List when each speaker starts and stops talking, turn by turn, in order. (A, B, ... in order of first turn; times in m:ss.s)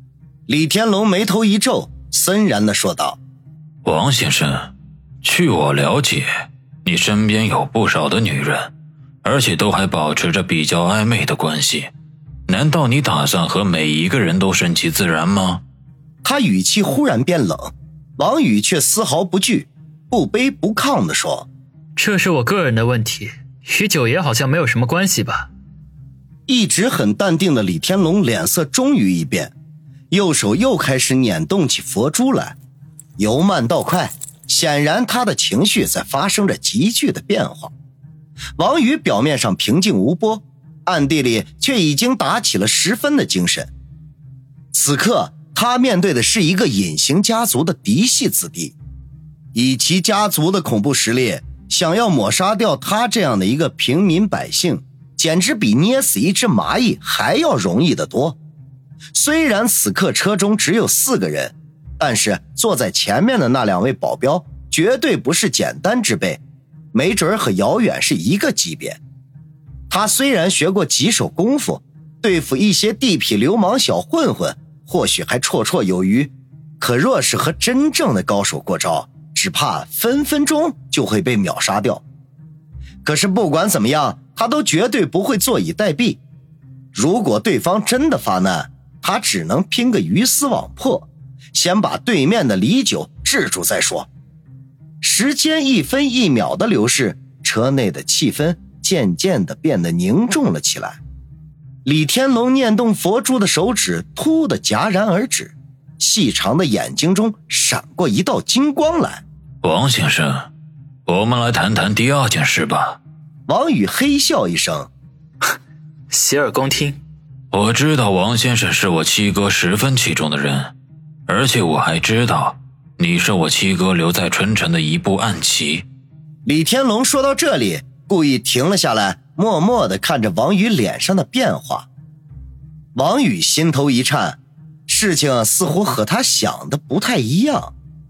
0:00.5-0:03.2 A
0:03.8-0:08.7 B
0:09.2-0:11.9 B
0:12.5-0:15.6 B
0:16.2-0:21.5 A
0:22.0-0:25.5 C
0:26.5-0:29.5 A
0:30.1-0:32.6 A
0:33.2-0:37.7 A
0:38.6-0:43.7 A
0:44.7-0:48.8 A
0:49.5-0:58.4 A
0:59.1-1:06.4 A
1:06.9-1:09.0 A
1:09.9-1:22.0 A
1:23.0-1:26.2 A
1:26.9-1:34.1 A
1:35.0-1:41.0 A
1:41.8-1:49.2 A
1:49.6-1:50.5 B
1:51.0-1:53.0 B
1:53.5-1:54.9 A
1:56.1-1:57.0 C
1:57.5-2:00.7 B
2:01.3-2:05.9 B
2:06.4-2:11.9 A
2:13.0-2:17.7 A